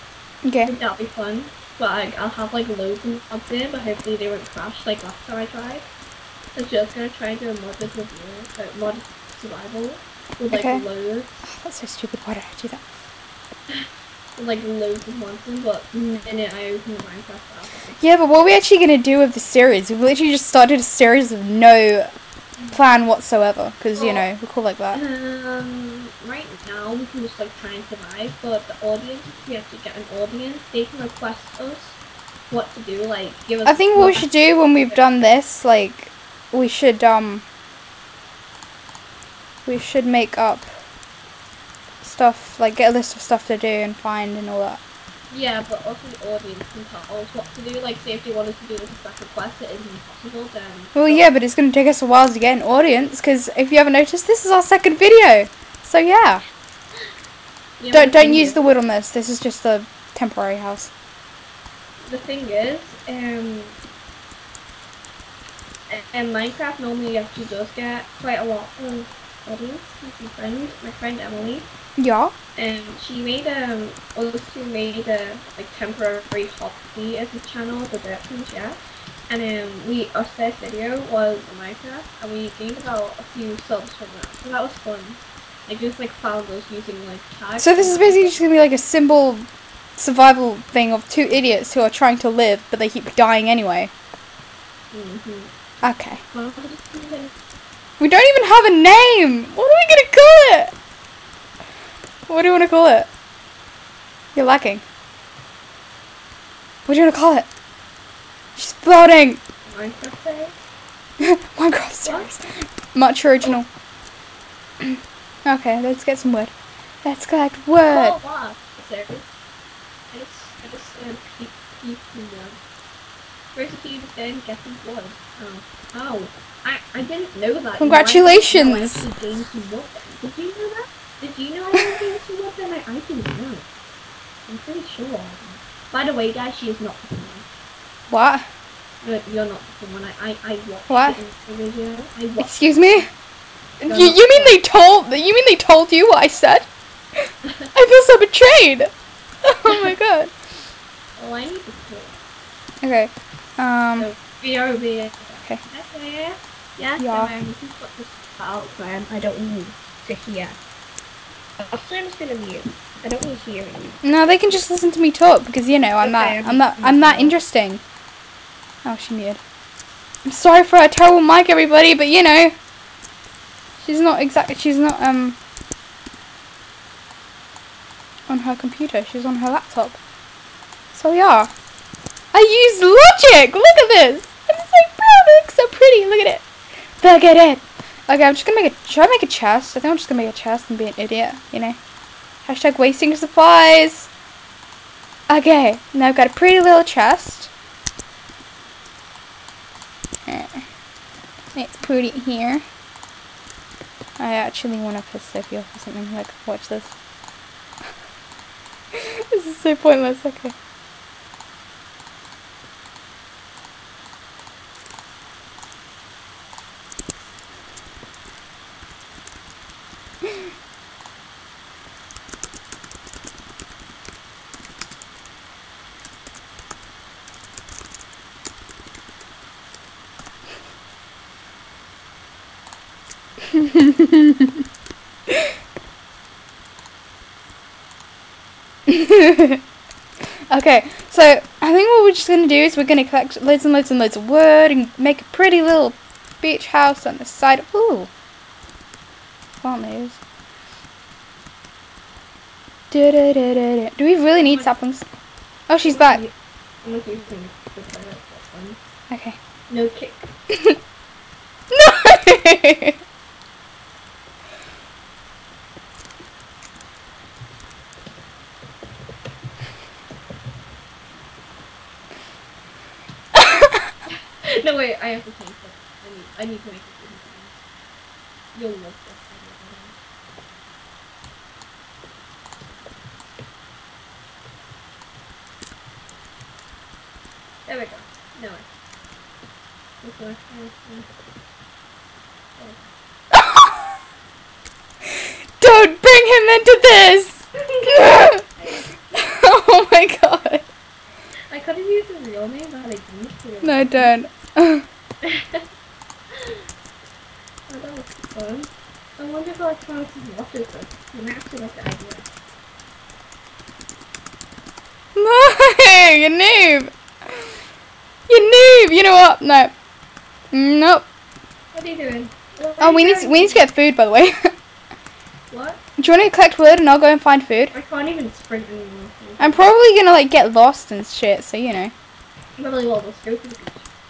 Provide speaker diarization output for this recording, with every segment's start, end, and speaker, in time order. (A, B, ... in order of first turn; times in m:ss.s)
0:00.4-0:00.7 A
0:00.6-0:05.8 B
0:06.5-0:11.4 B
0:10.5-0:10.8 A
0:11.5-0:12.8 A
0:14.4-0:18.0 B
0:18.0-0:22.1 A
0:22.7-0:25.0 A
0:24.0-0:24.2 B
0:24.9-0:32.0 B
0:32.5-0:34.3 B
0:33.6-0:37.4 A
0:39.6-0:40.7 A
0:42.0-0:44.8 A
0:45.3-0:51.3 B
0:50.9-0:56.4 A
0:57.8-0:58.6 B
0:57.9-1:00.9 A
1:02.1-1:03.7 B
1:05.9-1:11.7 B
1:12.0-1:12.3 A
1:12.6-1:28.4 B
1:27.6-1:29.4 A
1:30.0-1:33.9 A
1:34.9-1:35.5 B
1:35.8-1:36.2 A
1:36.3-1:37.3 B
1:38.0-1:40.7 A
1:42.3-1:43.1 A
1:44.4-1:44.8 A
1:46.9-1:47.5 A
1:48.6-1:49.4 A
1:49.7-1:50.5 B
1:51.2-1:53.6 A
1:52.0-1:52.3 B
1:54.8-1:56.5 A
1:57.0-1:58.2 A
1:57.9-1:59.3 B
2:00.1-2:02.6 B
2:03.5-2:13.6 B
2:07.8-2:09.0 A
2:14.5-2:17.4 B
2:18.1-2:18.4 A
2:19.0-2:23.1 B
2:20.9-2:21.2 A
2:22.4-2:23.0 A
2:23.8-2:28.9 A
2:23.8-2:24.6 B
2:29.4-2:30.3 A
2:31.2-2:32.2 B
2:32.8-2:34.1 A
2:34.0-2:40.6 B
2:37.0-2:37.3 A
2:41.6-2:44.0 B
2:44.0-2:47.8 A
2:46.0-2:47.4 B
2:48.8-2:49.4 A
2:50.2-2:52.5 A
2:53.8-2:55.4 A
2:58.3-3:00.0 A
3:00.9-3:01.5 A
3:02.3-3:06.4 A
3:07.0-3:11.8 A
3:12.4-3:14.1 A
3:15.3-3:17.5 A
3:20.3-3:20.6 A
3:21.5-3:22.6 A
3:24.2-3:26.9 A
3:28.9-3:30.5 A
3:53.5-3:54.6 A
3:58.9-3:59.6 A
4:00.5-4:08.1 A
4:09.6-4:10.2 A
4:12.9-4:15.0 A
4:14.4-4:14.7 B
4:15.7-4:16.2 A
4:15.8-4:18.8 B
4:19.1-4:19.4 A
4:19.7-4:20.3 B
4:20.5-4:20.8 A
4:21.7-4:23.0 A
4:33.3-4:33.7 A
4:34.4-4:37.5 B
4:38.5-4:39.9 B
4:47.6-4:48.6 B
4:50.0-4:51.1 B
4:52.6-4:52.9 B
4:53.3-4:53.7 A
4:55.6-4:58.4 A
4:57.6-4:58.8 B
4:59.1-5:00.6 A
5:01.5-5:04.1 B
5:03.6-5:04.8 A
5:05.2-5:05.6 B
5:07.7-5:12.2 B
5:15.2-5:17.4 A
5:18.3-5:19.7 A
5:20.5-5:21.0 A
5:21.7-5:23.7 B
5:22.8-5:24.5 A
5:25.5-5:25.8 B
5:26.0-5:27.7 A
5:27.7-5:29.7 B
5:29.4-5:31.9 A
5:32.6-5:33.8 B